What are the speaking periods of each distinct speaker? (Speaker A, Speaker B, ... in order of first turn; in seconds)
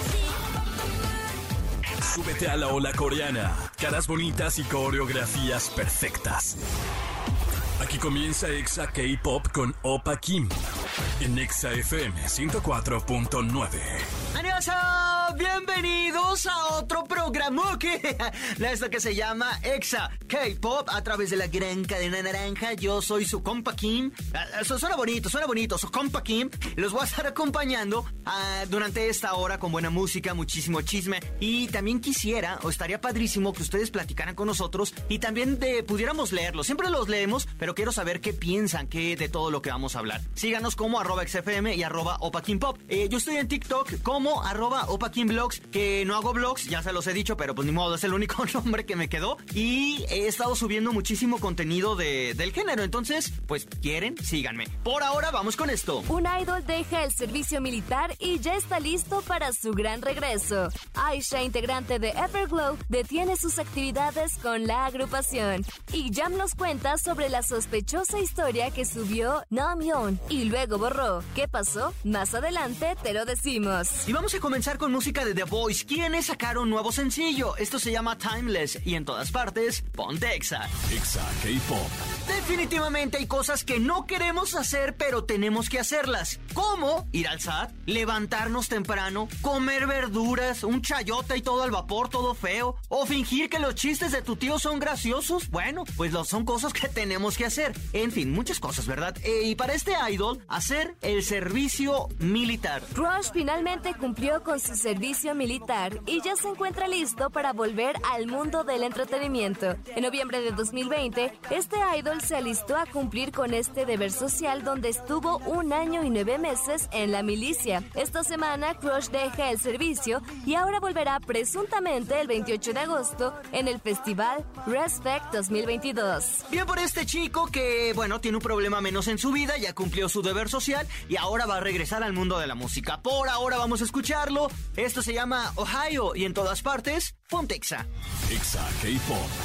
Speaker A: 2.0-6.6, 7.8-10.5, 11.2-14.1, 80.9-82.0, 138.3-139.3
Speaker B: 14.3-56.1, 74.1-80.7, 82.3-102.9, 126.5-137.9
Speaker C: 56.1-74.0, 102.9-126.4